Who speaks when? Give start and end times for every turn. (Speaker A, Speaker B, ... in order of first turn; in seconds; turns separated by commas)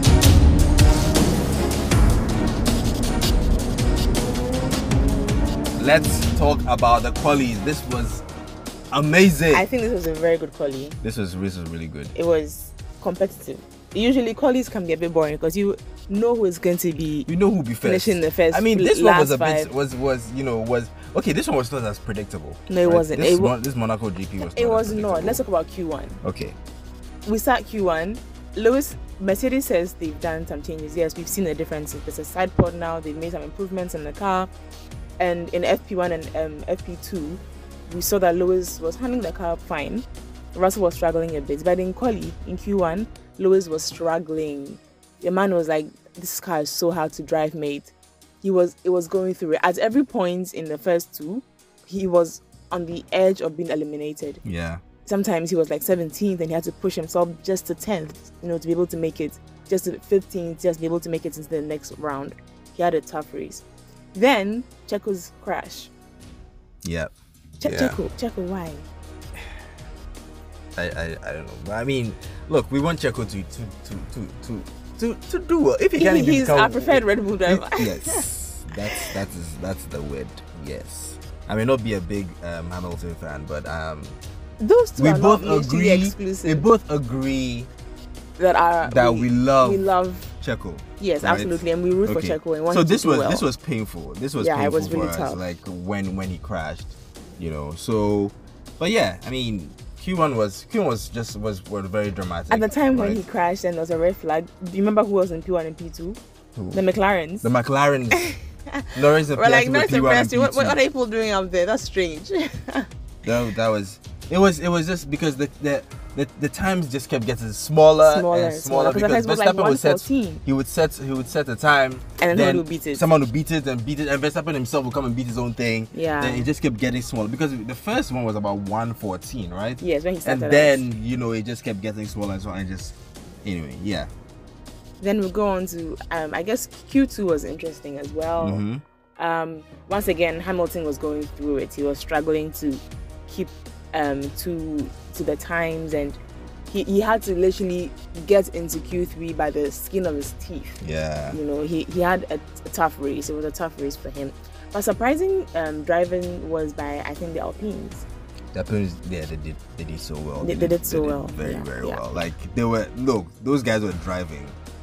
Speaker A: 5.8-8.2, Speaker A: 8.9-9.7, Speaker B: 9.5-11.0, Speaker A: 11.0-12.1, Speaker B: 12.1-17.3, Speaker A: 17.3-25.4, Speaker B: 17.8-19.7, Speaker B: 22.7-23.5, Speaker B: 24.4-26.2, Speaker A: 26.2-26.6, Speaker B: 27.2-34.5, Speaker B: 35.2-54.4, Speaker A: 54.4-54.8, Speaker B: 55.0-65.9, Speaker A: 66.8-67.1, Speaker B: 67.6-68.9, Speaker A: 67.6-68.0, Speaker A: 70.8-84.2, Speaker B: 76.0-78.2, Speaker B: 78.9-79.2, Speaker B: 84.6-86.7, Speaker A: 85.0-87.7, Speaker B: 88.4-90.3, Speaker A: 88.8-89.8, Speaker A: 90.4-103.2, Speaker B: 91.0-93.5, Speaker B: 94.4-95.4, Speaker B: 102.5-106.2, Speaker A: 106.5-106.8, Speaker B: 106.7-107.5, Speaker A: 107.4-108.3, Speaker B: 108.2-112.9, Speaker A: 108.9-110.8, Speaker A: 113.2-134.1, Speaker B: 118.0-120.4, Speaker B: 122.2-123.0, Speaker B: 125.9-126.5, Speaker B: 129.8-130.8, Speaker B: 135.0-138.6, Speaker A: 138.4-138.8, Speaker B: 139.2-150.8, Speaker A: 150.8-151.4, Speaker B: 151.3-158.0, Speaker A: 158.5-164.6, Speaker B: 160.4-162.1